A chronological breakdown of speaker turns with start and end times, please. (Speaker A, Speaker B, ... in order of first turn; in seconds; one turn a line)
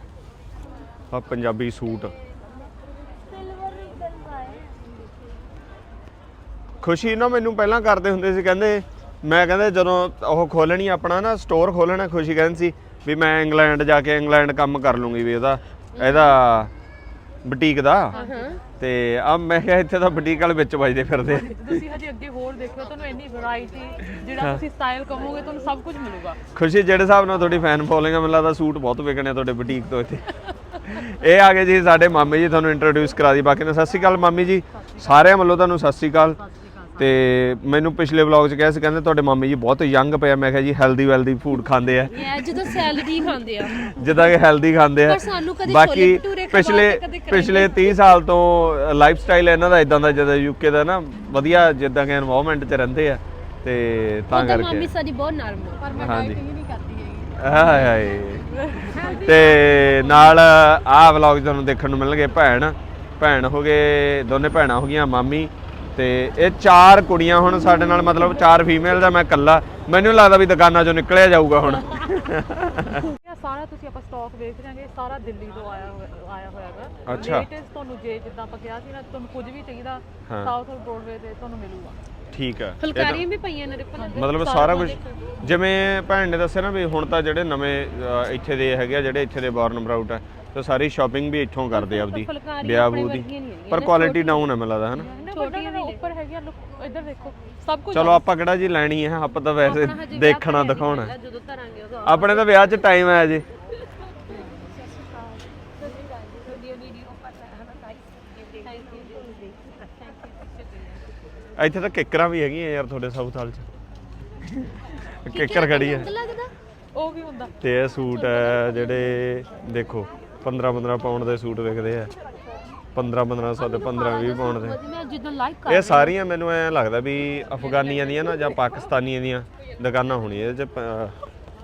Speaker A: 1.1-2.1
Speaker B: 3.2-4.9
Speaker A: 6.8-16.7
Speaker B: 15.9-16.4
Speaker A: 17.4-18.1
Speaker C: 18.1-18.6
Speaker B: 18.1-18.6
Speaker A: 18.8-21.8
Speaker C: 21.3-26.4
Speaker A: 26.5-30.3
Speaker A: 30.8-36.4
Speaker C: 34.7-35.2
Speaker C: 36.4-37.0
Speaker A: 37.0-42.8
Speaker B: 42.0-44.2
Speaker A: 43.8-54.9
Speaker B: 45.0-48.2
Speaker B: 54.3-55.9
Speaker C: 55.8-60.3
Speaker A: 56.0-56.4
Speaker A: 57.4-58.5
Speaker B: 58.9-60.3
Speaker A: 59.2-73.1
Speaker C: 73.2-82.0
Speaker A: 77.0-77.5
Speaker A: 80.3-80.5
Speaker A: 82.3-83.2
Speaker B: 82.8-85.3
Speaker C: 84.0-85.5
Speaker A: 84.1-95.1
Speaker B: 91.7-94.5
Speaker C: 94.9-98.2
Speaker B: 95.2-96.0
Speaker A: 97.9-101.1
Speaker B: 99.6-102.7
Speaker A: 102.0-103.4
Speaker B: 104.1-111.0
Speaker A: 111.6-113.7
Speaker A: 114.5-116.1
Speaker B: 115.3-116.5
Speaker C: 116.9-117.5
Speaker A: 117.6-122.1
Speaker B: 118.0-119.2
Speaker A: 122.9-124.8
Speaker B: 123.6-126.2
Speaker A: 125.7-131.1